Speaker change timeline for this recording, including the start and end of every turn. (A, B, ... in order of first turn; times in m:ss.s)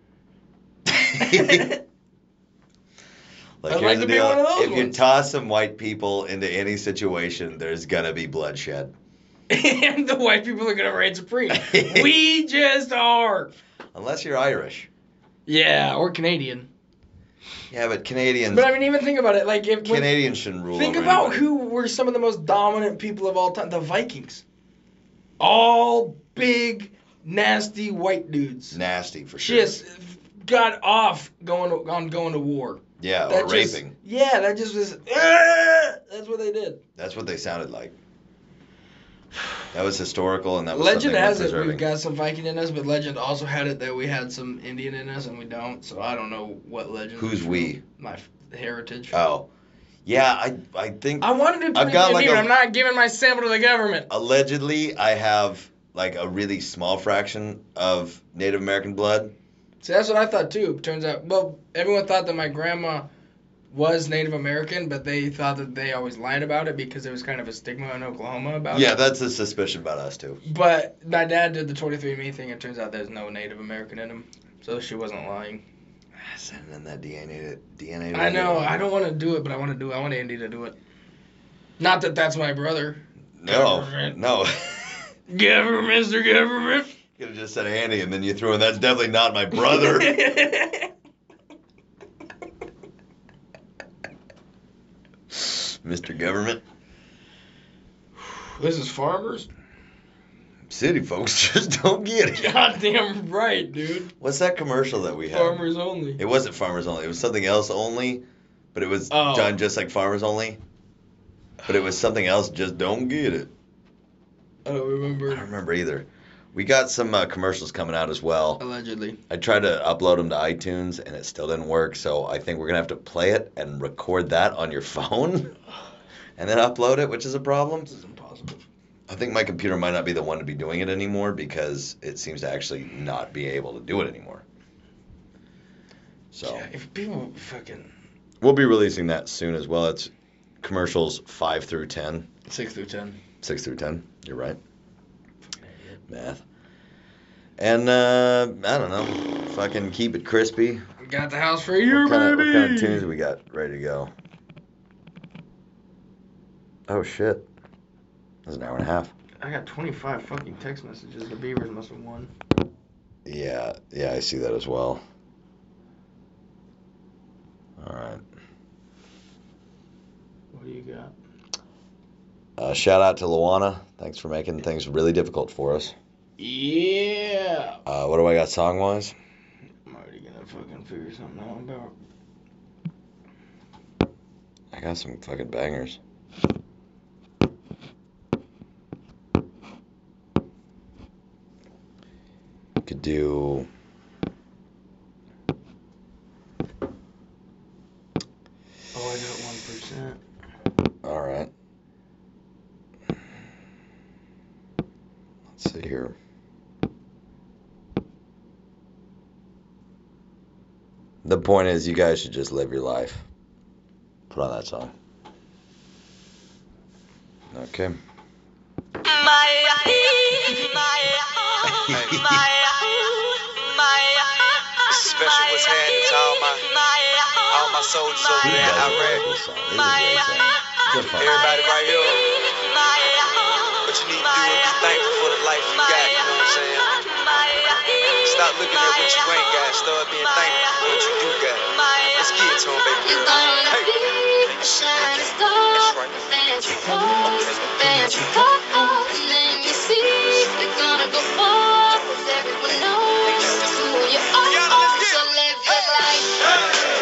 0:00.8-0:01.7 A
0:01.2-0:01.8 B
0:03.6-0:08.9 A
0:03.7-0:05.0 B
0:09.5-0:13.5 B
0:11.5-0:12.1 A
0:13.9-0:14.9 A
0:15.5-0:16.7 B
0:17.7-0:18.7 A
0:18.5-0:20.1 B
0:19.8-0:21.4 A
0:20.7-0:24.4 B
0:25.4-0:28.8 B
0:28.7-0:29.7 A
0:29.4-0:36.8 B
0:33.0-0:33.9 A
0:37.0-0:37.9 A
0:39.7-0:41.8 A
0:40.7-0:49.2 B
0:47.2-0:47.8 A
0:49.1-0:49.4 A
0:50.0-0:52.5 A
0:51.2-0:54.1 B
0:54.1-0:59.3 A
0:59.8-1:03.1 B
1:03.7-1:09.0 B
1:08.7-1:10.4 A
1:10.4-1:15.6 B
1:16.2-1:18.8 A
1:18.1-1:20.8 B
1:21.8-1:24.2 B
1:23.4-1:24.8 A
1:25.3-1:26.9 B
1:27.2-1:30.2 A
1:29.5-1:30.9 B
1:35.3-1:36.6 A
1:38.2-1:39.5 B
1:40.7-1:42.6 A
1:42.3-1:44.1 B
1:44.2-1:50.6 A
1:45.3-1:46.2 B
1:49.1-1:49.6 B
1:51.6-1:53.5 A
1:54.6-1:55.4 B
1:55.3-1:58.6 A
1:58.6-1:59.2 B
1:59.3-2:05.5 A
2:06.4-2:07.9 A
2:07.8-2:08.6 B
2:09.1-2:14.4 A
2:16.3-2:16.7 A
2:16.4-2:17.9 B
2:18.4-2:20.1 A
2:20.6-2:22.3 A
2:22.5-2:23.2 B
2:23.4-2:24.6 A
2:25.6-2:26.0 B
2:26.1-2:26.4 A
2:27.6-2:30.8 A
2:31.0-2:33.1 B
2:31.9-2:34.1 A
2:36.9-2:37.4 A
2:38.4-2:39.1 A
2:39.4-2:42.3 B
2:43.2-2:45.0 A
2:47.8-2:48.2 A
2:50.5-2:51.1 B
2:52.6-2:55.9 A
2:56.4-2:57.8 B
2:57.8-2:59.1 A
2:59.8-3:01.9 B
3:04.7-3:06.0 A
3:12.8-3:13.7 A
3:18.9-3:20.2 B
3:21.0-3:21.5 A
3:25.5-3:26.1 A
3:31.2-3:33.2 A
3:34.3-3:34.9 A
3:37.5-3:38.0 A
3:41.6-3:42.5 A
3:41.9-3:42.2 C
3:44.9-3:46.6 C
3:47.5-3:49.2 C
3:48.4-3:51.6 A
3:51.2-3:52.2 C
3:53.8-3:56.9 C
3:58.2-4:03.9 C
4:03.0-4:16.4 D
4:07.3-4:07.8 C
4:14.7-4:15.0 C